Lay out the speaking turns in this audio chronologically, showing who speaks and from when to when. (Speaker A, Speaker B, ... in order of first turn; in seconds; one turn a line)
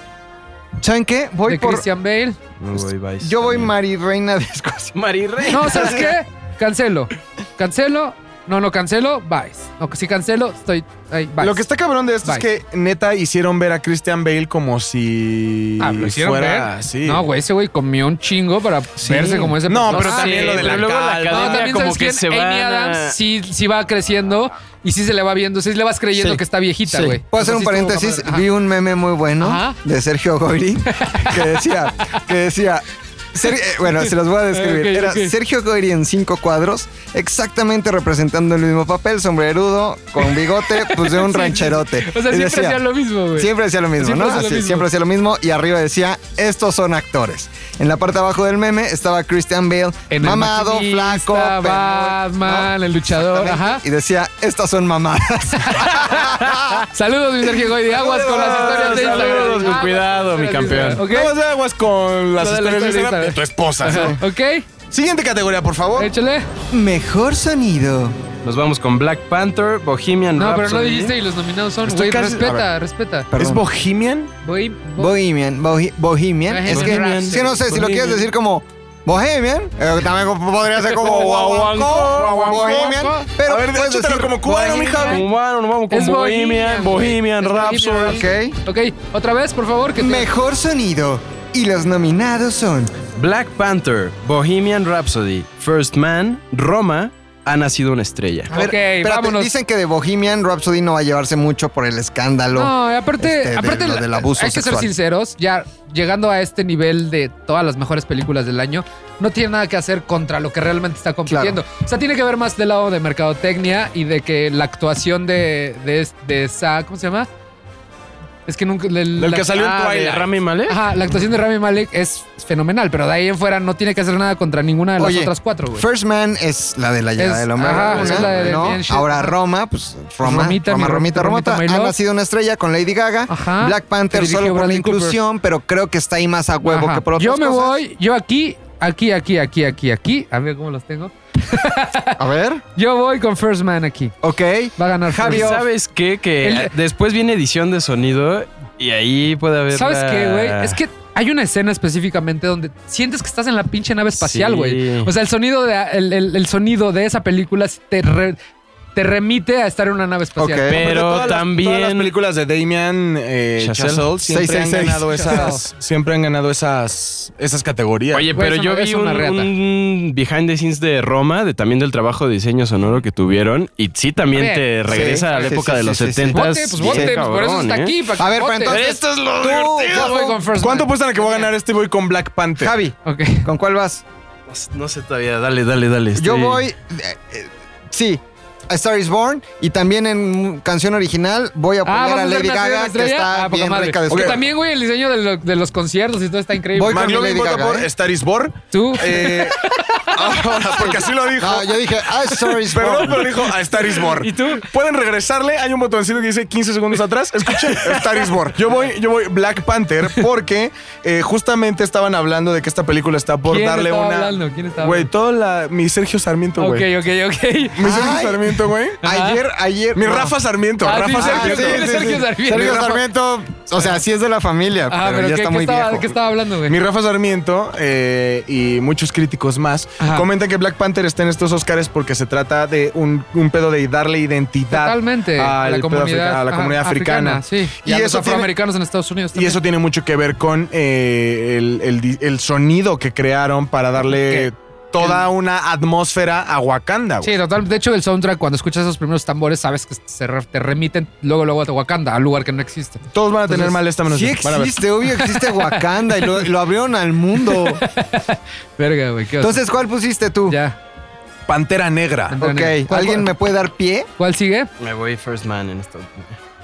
Speaker A: 0.8-1.8
Speaker B: 1.5-2.4
Speaker C: 2.6-3.7
Speaker A: 2.8-4.9
Speaker C: 4.9-6.1
Speaker B: 5.5-11.6
Speaker A: 5.5-6.0
Speaker D: 11.4-17.3
Speaker B: 15.8-28.4
Speaker D: 19.0-21.7
Speaker A: 19.1-19.5
Speaker C: 19.9-23.2
Speaker A: 26.1-56.9
Speaker B: 29.4-29.8
Speaker B: 30.9-31.6
Speaker B: 33.9-35.3
Speaker B: 40.2-44.9
Speaker B: 50.1-53.8
Speaker B: 55.6-61.3
Speaker D: 57.9-59.9
Speaker C: 58.0-61.1
Speaker D: 61.0-64.2
Speaker B: 62.4-64.7
Speaker A: 63.8-64.2
Speaker D: 64.9-66.1
Speaker B: 66.0-66.5
Speaker A: 66.7-68.2
Speaker C: 68.4-71.1
Speaker B: 70.4-73.3
Speaker D: 71.8-72.7
Speaker A: 73.3-73.6
Speaker D: 73.3-74.3
Speaker B: 74.4-75.1
Speaker A: 75.0-85.0
Speaker B: 76.5-77.6
Speaker C: 76.7-78.3
Speaker D: 80.9-85.2
Speaker C: 81.0-82.6
Speaker B: 82.5-83.1
Speaker C: 84.6-88.2
Speaker B: 85.9-90.3
Speaker A: 88.0-88.6
Speaker A: 90.0-92.9
Speaker C: 93.2-98.5
Speaker A: 98.5-104.9
Speaker B: 98.5-99.5
Speaker B: 102.5-117.3
Speaker A: 111.3-111.6
Speaker B: 118.5-119.5
Speaker D: 119.2-120.3
Speaker C: 119.5-120.8
Speaker B: 120.7-125.8
Speaker A: 125.0-137.8
Speaker B: 127.2-129.3
Speaker C: 127.7-128.3
Speaker D: 127.7-128.5
Speaker B: 130.2-131.9
Speaker B: 133.3-135.2
Speaker B: 136.6-142.2
Speaker A: 142.2-142.6
Speaker B: 142.8-144.1
Speaker A: 144.2-145.6
Speaker B: 144.8-145.6
Speaker C: 145.2-150.8
Speaker B: 146.4-146.7
Speaker B: 149.7-158.4
Speaker C: 154.2-155.1
Speaker B: 158.9-160.8
Speaker A: 160.4-160.8
Speaker C: 160.7-162.1
Speaker D: 160.7-168.3
Speaker C: 163.6-164.1
Speaker A: 164.3-165.6
Speaker B: 165.1-165.6
Speaker C: 168.1-177.9
Speaker B: 168.3-169.5
Speaker B: 174.3-175.5
Speaker A: 174.9-177.1
Speaker B: 176.3-178.8
Speaker A: 178.2-180.4
Speaker C: 178.7-180.2
Speaker B: 179.9-181.5
Speaker D: 180.5-182.7
Speaker A: 182.6-184.0
Speaker B: 183.0-183.5
Speaker C: 184.5-186.6
Speaker A: 186.2-194.4
Speaker B: 191.8-197.1
Speaker D: 194.1-194.4
Speaker A: 196.7-197.9
Speaker D: 196.8-201.8
Speaker B: 198.7-201.0
Speaker A: 200.1-203.3
Speaker D: 202.6-216.9
Speaker B: 203.8-204.6
Speaker B: 207.6-208.2
Speaker B: 213.5-215.1
Speaker B: 216.6-218.1
Speaker D: 217.8-219.0
Speaker A: 217.8-220.3
Speaker B: 219.0-219.4
Speaker D: 219.9-222.9
Speaker B: 220.8-223.0
Speaker A: 221.1-226.1
Speaker B: 224.9-226.8
Speaker D: 226.7-238.5
Speaker B: 230.0-230.2
Speaker B: 234.7-239.6
Speaker D: 239.3-247.3
Speaker B: 244.1-245.2
Speaker B: 247.2-253.8
Speaker D: 253.1-254.8
Speaker A: 254.1-257.8
Speaker B: 255.1-256.5
Speaker B: 257.4-259.6
Speaker A: 259.4-260.6
Speaker B: 260.5-260.8
Speaker D: 261.5-262.4
Speaker B: 262.3-263.3
Speaker A: 262.4-264.1
Speaker B: 264.2-264.7
Speaker C: 264.8-266.4